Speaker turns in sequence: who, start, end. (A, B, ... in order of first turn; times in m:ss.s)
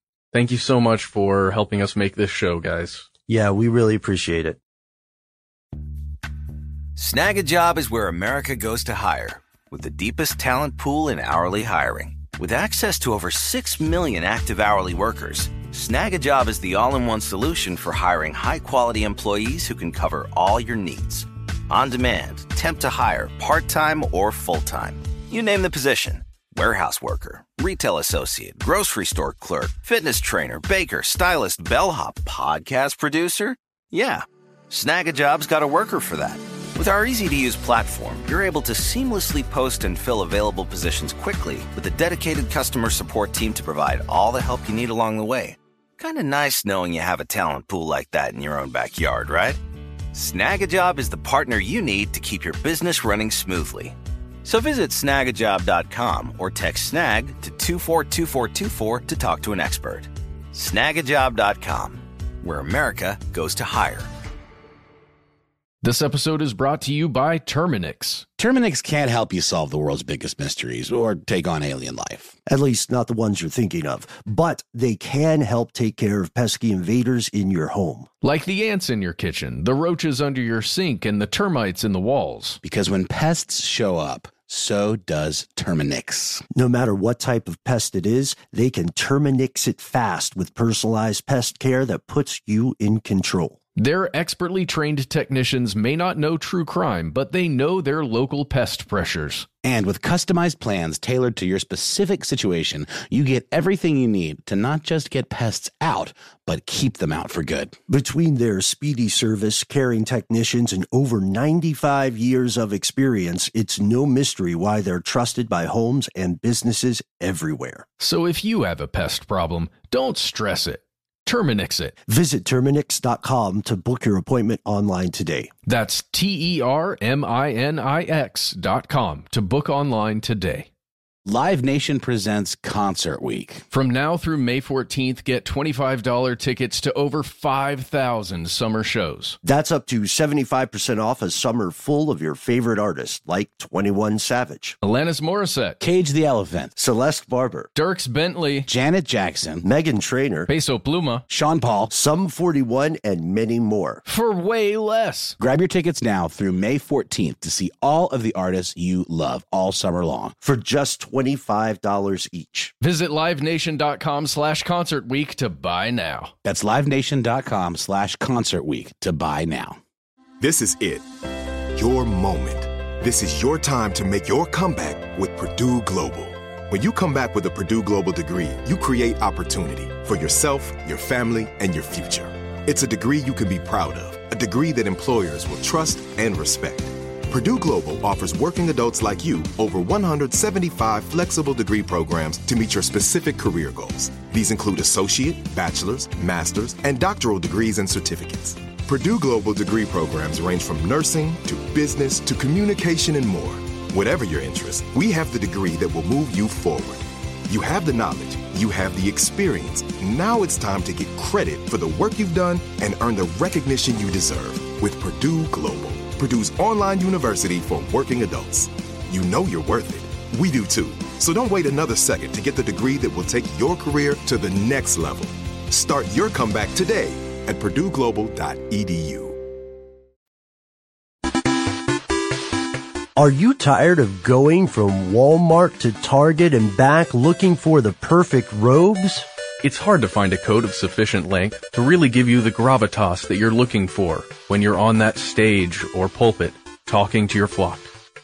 0:00.3-0:03.0 A
0:03.3-0:04.6 B
0:07.0-0:49.6 C
0:50.1-1:04.1 C
1:05.8-1:08.3 D
1:08.4-1:12.4 E
1:12.5-1:18.1 B
1:18.2-1:22.6 D
1:22.6-1:26.4 E
1:26.5-1:33.6 B
1:33.8-1:39.5 D
1:39.6-1:47.8 E
1:47.9-1:57.8 B
1:58.0-2:02.0 D
2:02.1-2:05.5 B
2:05.6-2:10.7 D
2:11.2-2:13.6 E
2:13.7-2:19.4 D
2:19.4-2:24.8 B
2:24.8-2:25.8 D
2:25.8-2:26.7 E
2:26.8-2:27.7 B
2:27.7-2:28.7 D
2:28.7-2:29.6 E
2:29.6-2:30.5 B
2:30.5-2:31.2 D
2:31.3-2:31.9 E
2:31.9-2:34.0 B
2:34.0-2:35.4 D
2:35.4-2:40.3 E
2:40.4-2:42.7 B
2:42.8-2:46.3 D
2:46.4-2:49.8 E
2:50.4-2:51.0 F
2:51.7-3:49.4 F
3:53.2-3:59.3 B
3:59.6-4:07.9 A